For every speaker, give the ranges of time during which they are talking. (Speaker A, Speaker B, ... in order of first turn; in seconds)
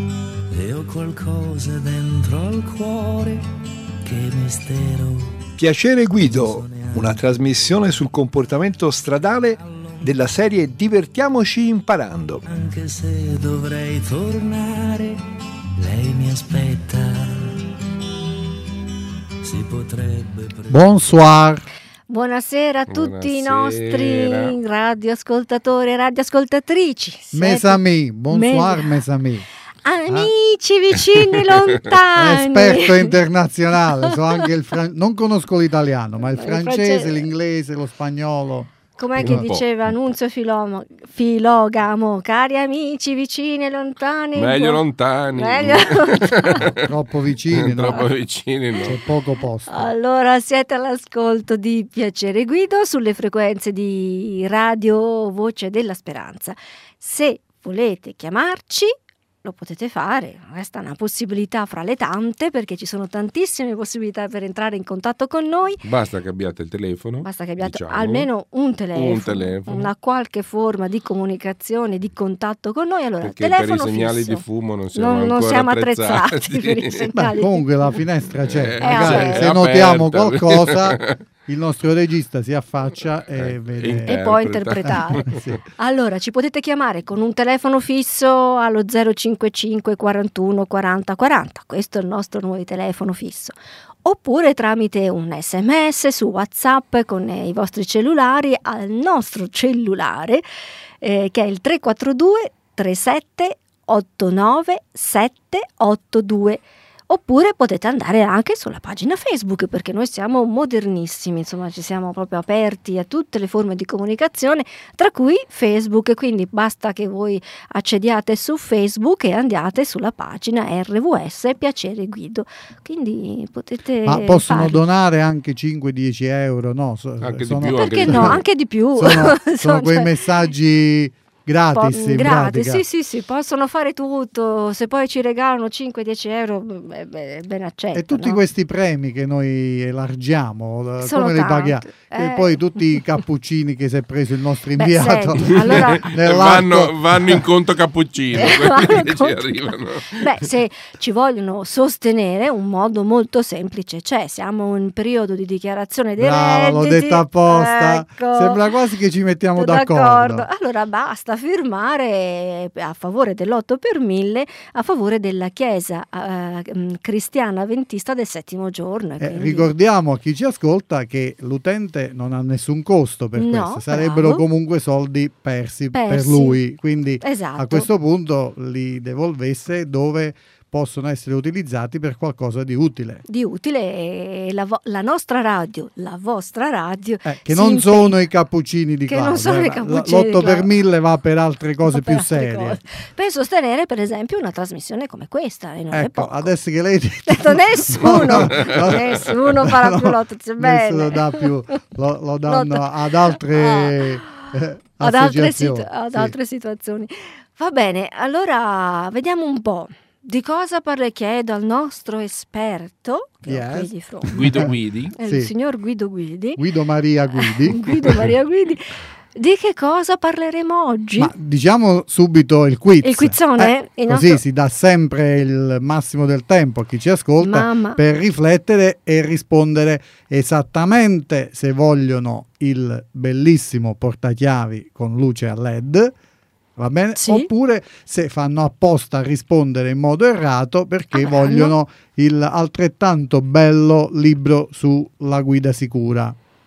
Speaker A: 0.5-3.4, 4.0-5.4, 6.1-7.3, 9.5-10.3, 12.4-15.2, 15.8-17.5, 19.4-21.1
Speaker B: 5.6-12.4
Speaker C: 20.7-21.7, 27.3-29.5, 32.1-39.5, 46.7-48.1, 48.8-49.9, 77.2-84.2, 84.9-85.6, 124.0-128.4, 129.0-132.8, 137.9-147.5, 156.2-160.5, 169.2-183.2, 187.2-192.8, 195.9-206.3, 213.5-215.5, 216.6-218.3, 221.2-236.1, 236.8-246.4
Speaker D: 22.1-29.0, 29.9-33.1, 36.4-37.2, 39.0-44.8, 45.3-46.7, 49.7-65.8, 67.2-74.4, 75.0-77.6, 78.8-79.5, 84.1-100.4, 101.0-124.8, 127.7-130.1, 131.7-138.4, 141.0-143.0, 144.8-146.0, 148.4-158.6, 159.6-169.7, 173.4-174.4, 175.9-176.6, 177.2-177.9, 183.3-188.2, 189.1-190.7, 191.8-196.5, 197.3-201.5, 202.5-216.6, 217.4-221.3, 223.0-224.4, 227.4-228.0, 237.2-237.5, 241.1-241.7
Speaker E: 22.9-24.5, 39.2-39.6, 44.4-46.9, 47.5-49.0, 65.8-68.3, 69.0-69.8, 73.2-77.0, 78.4-81.2, 83.3-85.6, 127.2-128.4, 145.6-150.3, 214.3-215.1